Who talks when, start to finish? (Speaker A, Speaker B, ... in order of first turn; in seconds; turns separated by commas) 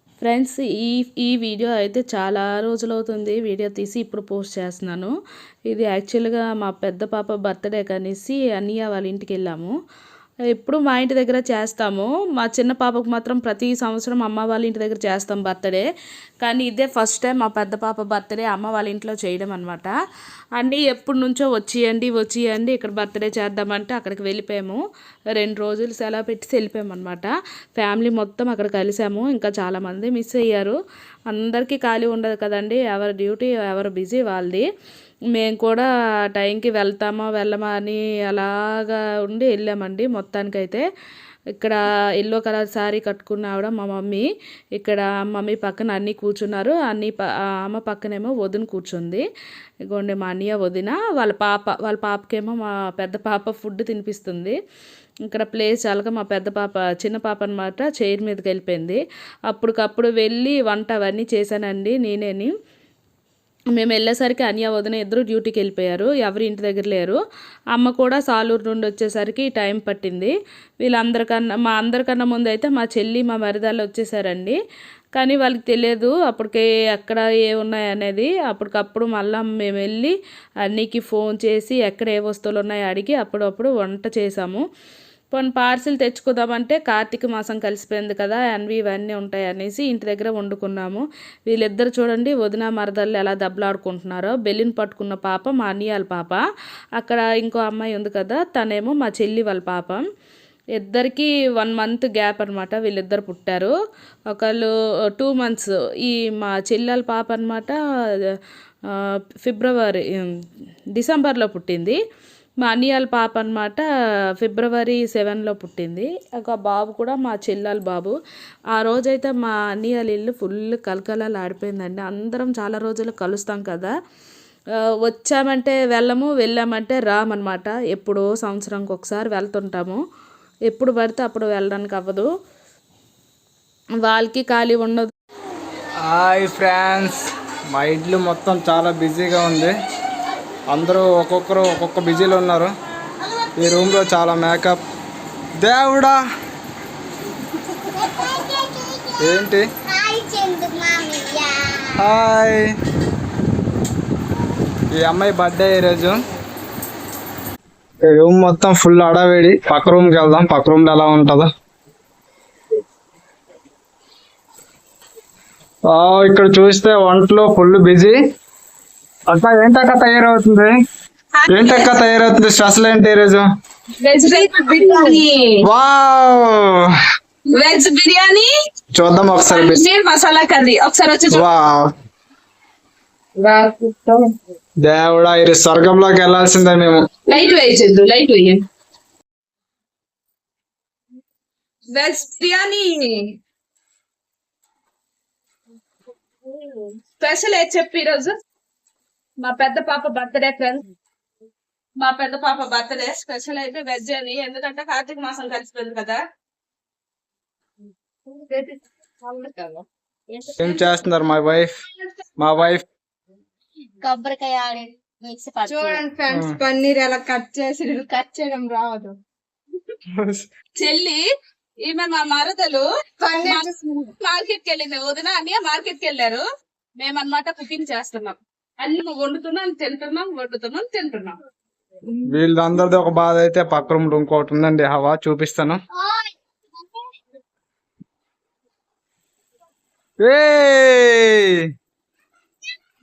Speaker A: 0.2-5.1, Speaker A: 5.7-9.7, Speaker A: 10.5-15.9, Speaker A: 16.4-19.9, Speaker A: 20.6-24.8, Speaker A: 25.3-30.8, Speaker A: 31.3-34.6, Speaker A: 35.3-40.8, Speaker A: 41.6-44.2, Speaker A: 44.8-49.2, Speaker A: 49.9-54.5, Speaker A: 55.2-62.5, Speaker A: 63.7-67.2, Speaker A: 67.7-74.6, Speaker A: 75.1-80.1, Speaker A: 80.7-84.6, Speaker A: 85.3-96.4, Speaker A: 97.0-100.0, Speaker A: 100.8-103.7, Speaker A: 104.3-108.4, Speaker A: 109.4-110.3, Speaker A: 110.9-112.0, Speaker A: 112.6-113.8, Speaker A: 114.4-118.1, Speaker A: 118.7-123.9, Speaker A: 125.0-130.0, Speaker A: 130.7-132.3, Speaker A: 134.0-135.1, Speaker B: 136.0-139.7, Speaker B: 140.7-142.7, Speaker B: 143.6-144.8, Speaker B: 145.6-146.2, Speaker C: 148.0-149.1, Speaker B: 149.2-149.6, Speaker C: 149.9-151.8, Speaker B: 152.0-152.7, Speaker B: 154.9-156.2, Speaker B: 158.0-161.5, Speaker B: 165.9-168.2, Speaker B: 169.3-170.7, Speaker D: 171.4-172.0, Speaker B: 171.5-173.4, Speaker D: 174.0-175.6, Speaker E: 174.2-175.2, Speaker B: 175.6-177.0, Speaker D: 177.5-178.5, Speaker B: 178.9-179.8, Speaker D: 179.4-181.4, Speaker B: 181.3-181.9, Speaker E: 183.4-184.3, Speaker B: 184.8-187.0, Speaker D: 187.3-188.6, Speaker D: 191.9-193.4, Speaker D: 197.2-198.3, Speaker D: 199.4-200.9, Speaker D: 202.0-206.2, Speaker E: 208.3-209.8, Speaker B: 210.6-211.8, Speaker B: 212.4-212.8, Speaker C: 214.0-216.0, Speaker E: 215.6-219.1, Speaker B: 216.3-216.6, Speaker B: 220.1-220.5, Speaker D: 220.8-221.2, Speaker D: 221.9-222.8, Speaker E: 223.2-224.1, Speaker D: 224.2-226.4, Speaker D: 227.0-231.3, Speaker B: 232.3-235.8, Speaker C: 236.0-236.3, Speaker B: 240.2-241.7